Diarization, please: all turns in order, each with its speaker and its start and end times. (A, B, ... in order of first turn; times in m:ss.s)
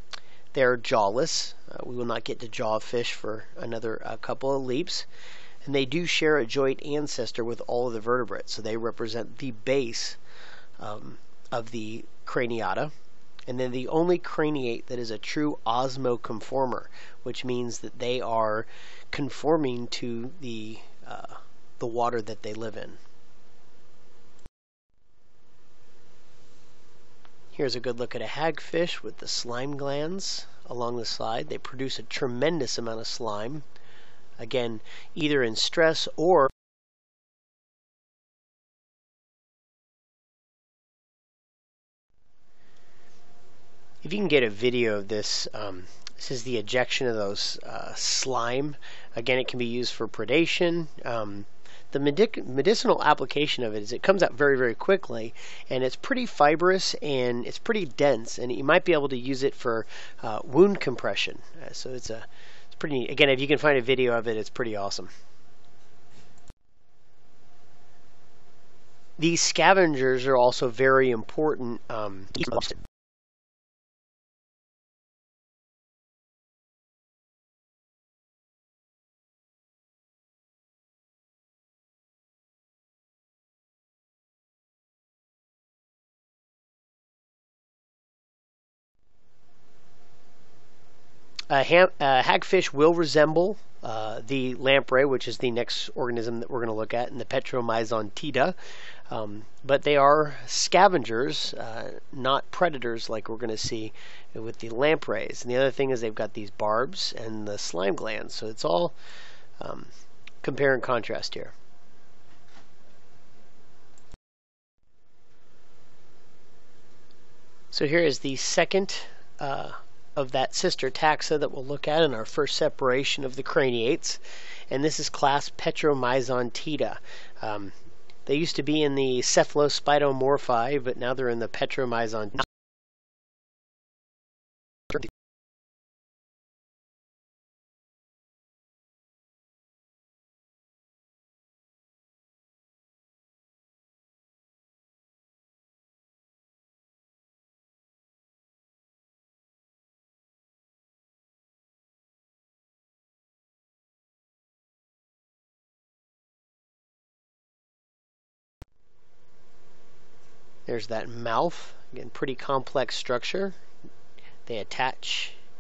0:00.5-0:05.1 A
0:05.6-0:10.2 A
0:10.8-0:12.9 A
0:13.5-0:23.0 A
0:27.5-0:33.6 A
0:34.4-0:36.5 A
0:44.0-1:05.1 A
1:09.2-1:12.8 A
1:31.5-1:38.6 A
1:39.1-1:49.0 A
1:49.6-1:49.9 A
1:50.4-1:51.5 A
1:57.7-2:07.7 A
2:08.3-2:12.5 A
2:40.7-2:43.6 A
2:44.5-2:45.4 A